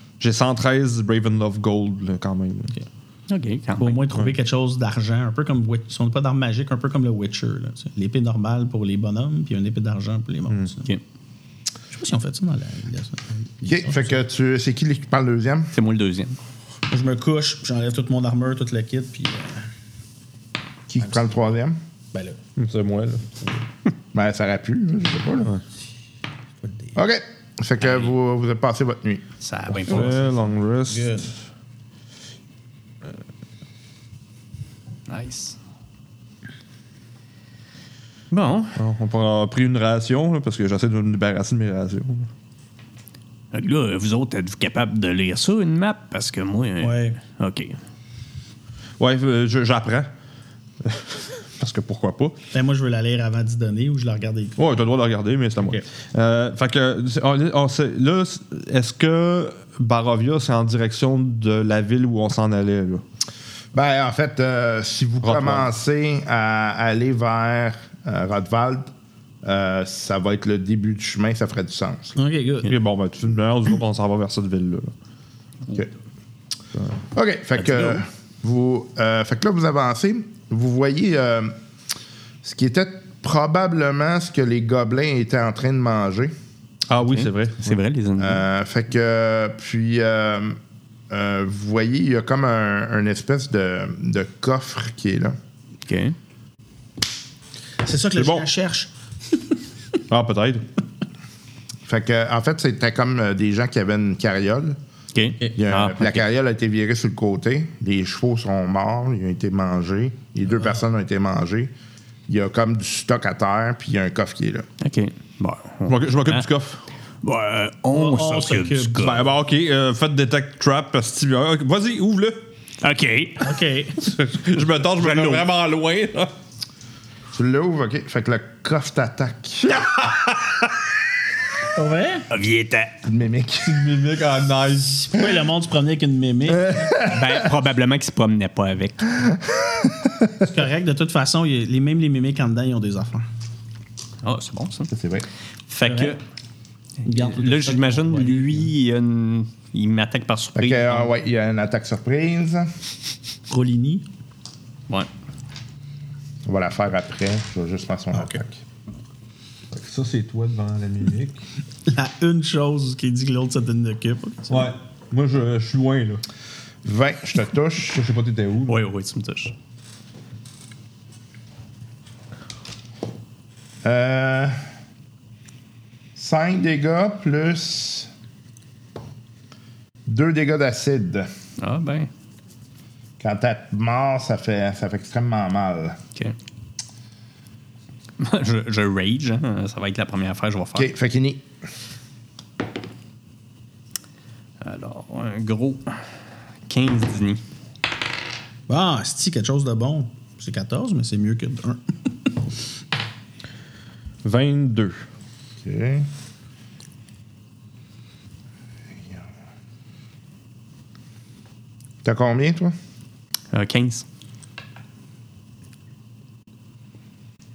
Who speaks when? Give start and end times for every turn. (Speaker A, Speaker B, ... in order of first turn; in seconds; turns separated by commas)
Speaker A: 0.2-2.7, Speaker B: 3.3-4.0, Speaker C: 3.8-10.9, Speaker C: 11.9-14.2, Speaker D: 13.7-15.7, Speaker B: 15.7-16.4, Speaker C: 16.9-19.7, Speaker D: 20.9-21.8, Speaker C: 21.0-21.3, Speaker C: 22.1-22.4, Speaker A: 22.6-23.3, Speaker D: 24.1-25.5, Speaker D: 26.9-29.2, Speaker B: 27.8-28.1, Speaker B: 29.4-30.2, Speaker A: 29.8-31.2, Speaker C: 29.9-30.3, Speaker C: 30.9-31.3, Speaker B: 35.1-35.6, Speaker B: 38.3-38.8, Speaker A: 38.8-42.3, Speaker B: 43.5-47.8, Speaker C: 46.8-47.2, Speaker A: 49.0-50.1, Speaker A: 50.8-52.4, Speaker C: 52.5-54.6, Speaker A: 54.6-63.0, Speaker D: 63.7-68.9, Speaker A: 65.2-65.7, Speaker D: 69.4-72.2, Speaker C: 72.2-72.7, Speaker A: 72.6-74.9, Speaker D: 77.1-81.5, Speaker B: 77.6-78.0, Speaker D: 82.4-86.3, Speaker A: 86.9-87.8, Speaker B: 87.0-88.4, Speaker D: 88.2-90.6, Speaker D: 91.1-95.3, Speaker B: 95.9-96.2, Speaker C: 97.8-98.9, Speaker A: 98.2-98.4, Speaker A: 100.1-100.6, Speaker D: 101.8-104.8, Speaker B: 105.1-106.2, Speaker D: 105.5-111.7, Speaker D: 112.3-114.7, Speaker B: 114.8-116.4, Speaker A: 115.8-116.8, Speaker B: 117.2-119.2, Speaker C: 117.9-119.2, Speaker A: 119.0-122.5, Speaker B: 122.8-123.5, Speaker C: 123.4-124.0, Speaker A: 124.0-126.3, Speaker B: 125.0-125.4, Speaker D: 127.3-129.8, Speaker C: 131.7-132.3, Speaker B: 132.3-132.9, Speaker D: 133.0-133.8, Speaker A: 133.6-135.3, Speaker C: 135.0-136.9, Speaker D: 136.8-137.2, Speaker B: 137.0-139.2, Speaker C: 140.4-143.2, Speaker B: 144.2-144.9, Speaker D: 144.9-145.3, Speaker B: 145.7-146.2, Speaker C: 145.8-146.2, Speaker C: 147.0-148.7, Speaker B: 147.1-151.1, Speaker D: 150.5-152.7, Speaker C: 153.5-154.0, Speaker D: 156.4-158.5, Speaker C: 158.1-158.4, Speaker A: 159.7-161.4, Speaker C: 161.9-164.7, Speaker A: 164.5-166.2, Speaker D: 166.8-168.0, Speaker A: 167.9-168.8, Speaker B: 168.7-169.5, Speaker D: 173.8-174.6, Speaker D: 176.2-178.1, Speaker D: 180.1-181.3, Speaker B: 181.6-182.1, Speaker D: 183.2-186.0, Speaker B: 188.2-190.9, Speaker D: 190.7-191.4, Speaker B: 194.6-196.0, Speaker B: 196.7-197.4, Speaker C: 198.7-201.8, Speaker A: 204.2-205.0, Speaker D: 205.6-206.1, Speaker D: 212.0-212.8, Speaker B: 213.5-214.0